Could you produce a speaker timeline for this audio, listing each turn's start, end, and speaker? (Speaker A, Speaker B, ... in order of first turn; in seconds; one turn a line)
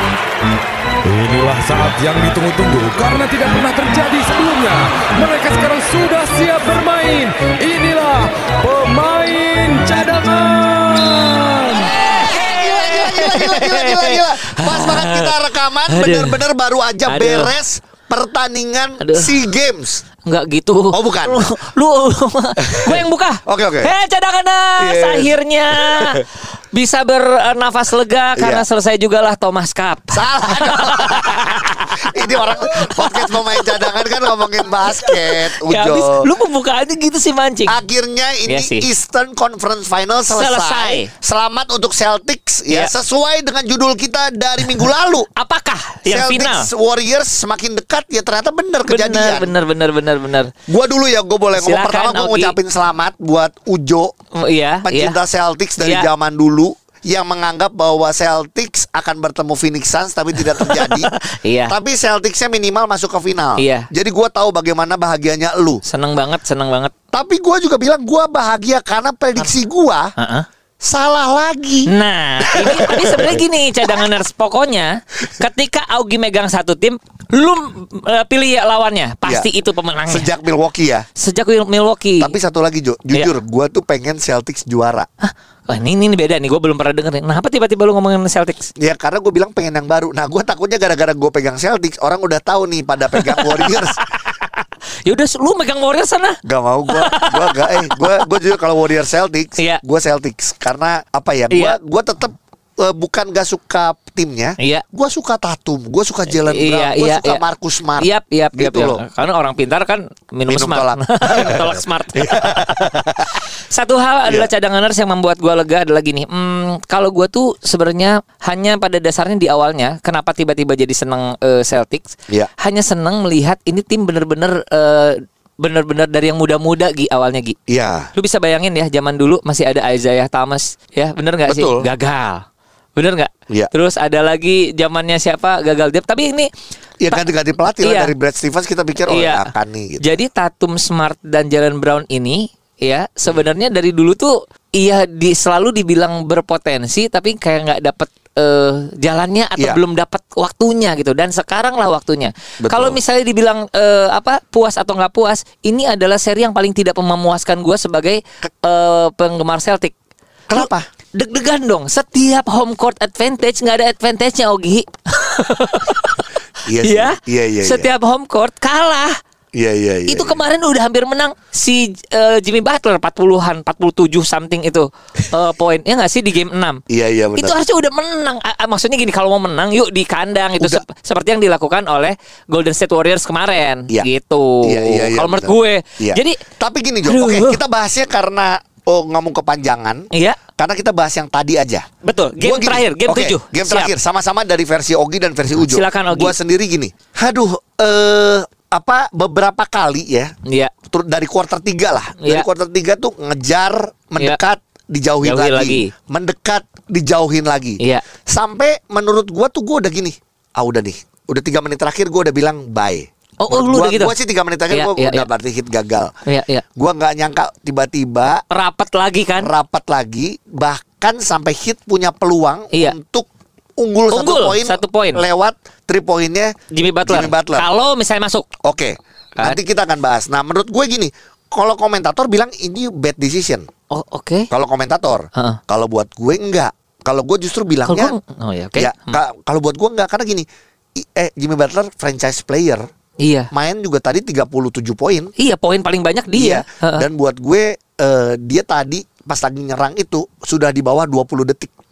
Speaker A: 1.0-11.9
Speaker B: 11.7-16.5
Speaker C: 12.2-20.0
Speaker B: 17.1-17.6
Speaker B: 19.0-19.4
Speaker B: 20.3-37.8
Speaker C: 20.9-21.6
Speaker C: 22.6-23.9
Speaker C: 24.8-26.2
Speaker C: 28.4-28.7
Speaker C: 30.1-36.3
Speaker C: 37.7-45.3
Speaker B: 38.5-38.9
Speaker B: 40.3-41.1
Speaker B: 44.6-46.7
Speaker C: 46.1-49.5
Speaker B: 48.9-50.5
Speaker C: 50.7-54.1
Speaker B: 51.5-52.6
Speaker B: 54.4-55.2
Speaker C: 54.8-61.1
Speaker B: 55.8-56.1
Speaker B: 60.4-61.8
Speaker C: 61.7-65.8
Speaker B: 63.6-63.9
Speaker B: 65.8-66.9
Speaker C: 67.1-70.1
Speaker B: 70.2-70.5
Speaker C: 70.8-74.1
Speaker B: 71.9-80.3
Speaker C: 79.2-79.5
Speaker C: 80.1-81.1
Speaker B: 81.2-82.3
Speaker C: 82.2-85.1
Speaker B: 85.2-88.7
Speaker C: 88.8-94.0
Speaker B: 93.2-94.5
Speaker B: 95.0-96.4
Speaker C: 96.5-109.0
Speaker B: 96.9-98.3
Speaker B: 101.5-101.8
Speaker B: 104.6-104.8
Speaker B: 106.3-107.4
Speaker B: 108.0-112.6
Speaker C: 110.5-113.3
Speaker B: 113.7-127.6
Speaker C: 127.7-128.1
Speaker B: 128.2-132.4
Speaker C: 131.5-131.9
Speaker B: 133.0-136.5
Speaker C: 137.0-140.1
Speaker B: 137.8-138.1
Speaker B: 139.1-159.9
Speaker C: 152.6-153.0
Speaker C: 160.5-160.9
Speaker B: 160.5-169.2
Speaker C: 166.7-167.9
Speaker C: 169.6-170.4
Speaker B: 170.1-176.8
Speaker C: 176.9-177.6
Speaker B: 177.3-186.4
Speaker C: 180.6-180.8
Speaker C: 184.6-191.9
Speaker B: 187.1-187.6
Speaker B: 190.1-190.4
Speaker B: 192.0-193.9
Speaker C: 192.4-200.3
Speaker B: 195.6-196.3
Speaker B: 200.5-200.7
Speaker C: 200.9-216.1
Speaker B: 202.2-202.5
Speaker B: 205.2-205.9
Speaker B: 213.4-214.2
Speaker B: 214.7-215.3
Speaker B: 216.3-216.6
Speaker C: 216.8-218.4
Speaker B: 218.4-219.5
Speaker C: 219.4-223.3
Speaker C: 223.8-226.5
Speaker B: 224.1-225.2
Speaker B: 226.7-228.5
Speaker C: 227.1-227.7
Speaker C: 228.6-233.7
Speaker B: 233.9-234.5
Speaker C: 234.5-238.2
Speaker B: 237.9-239.2
Speaker C: 238.8-240.5
Speaker C: 241.0-242.8
Speaker B: 243.2-243.5
Speaker C: 243.5-245.3
Speaker B: 245.4-247.1
Speaker C: 246.3-251.7